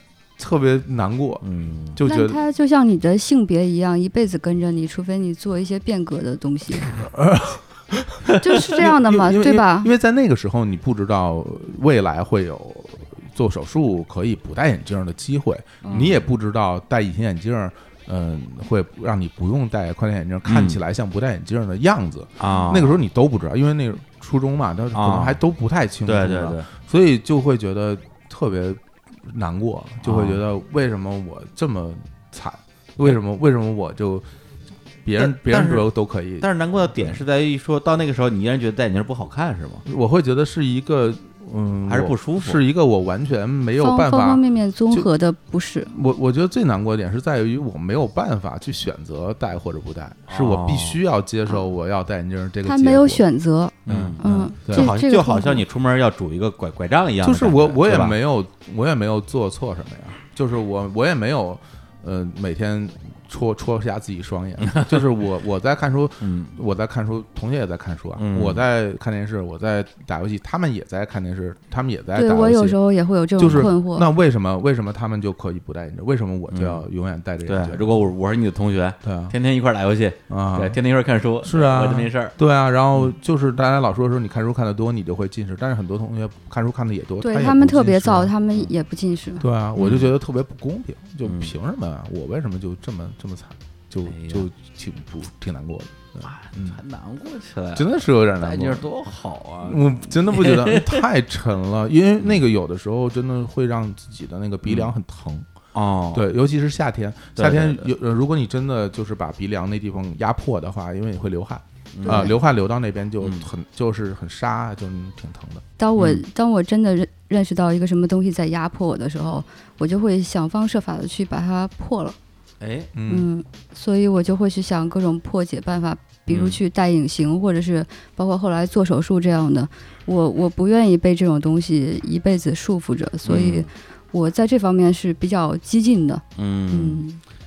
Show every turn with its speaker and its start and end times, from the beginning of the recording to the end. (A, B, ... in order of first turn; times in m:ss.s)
0:00.4-0:02.4 A
0:01.4-0:02.0 B
0:02.0-0:07.0 C
0:06.8-0:34.2 A
0:08.4-0:09.9 C
0:15.8-0:16.2 B
0:20.4-0:20.8 B
0:22.4-0:23.0 B
0:24.9-0:25.4 B
0:26.0-0:26.7 B
0:30.0-0:30.4 B
0:35.0-0:37.2 A
0:35.2-0:39.8 B
0:39.8-0:45.1 A
0:41.9-0:42.6 B
0:43.8-0:45.9 C
0:45.9-0:53.2 A
0:50.3-0:51.0 B
0:52.6-0:55.6 C
0:53.8-0:54.9 A
0:53.9-0:58.2 B
0:57.2-1:12.8 A
1:04.6-1:05.1 B
1:06.2-1:06.5 B
1:08.2-1:08.6 B
1:12.1-1:14.1 C
1:13.4-1:18.0 A
1:16.5-1:16.8 B
1:17.4-1:22.3 B
1:19.0-1:19.3 A
1:20.3-1:20.8 A
1:21.4-1:28.3 A
1:27.2-1:29.4 C
1:29.4-1:36.8 A
1:29.8-1:30.1 B
1:31.2-1:31.5 B
1:34.1-1:34.4 B
1:36.2-1:41.0 B
1:37.7-1:38.9 A
1:39.6-1:45.5 A
1:44.6-1:44.9 B
1:45.7-1:46.2 B
1:46.1-1:55.6 A
1:47.4-1:47.9 B
1:51.9-1:52.3 B
1:52.0-1:52.3 C
1:53.2-1:53.4 B
1:55.8-2:02.2 C
1:56.0-1:56.2 B
2:02.6-2:02.9 B
2:02.9-2:03.3 A
2:03.1-2:17.2 C
2:06.3-2:06.6 B
2:13.2-2:13.7 B
2:16.4-2:17.0 B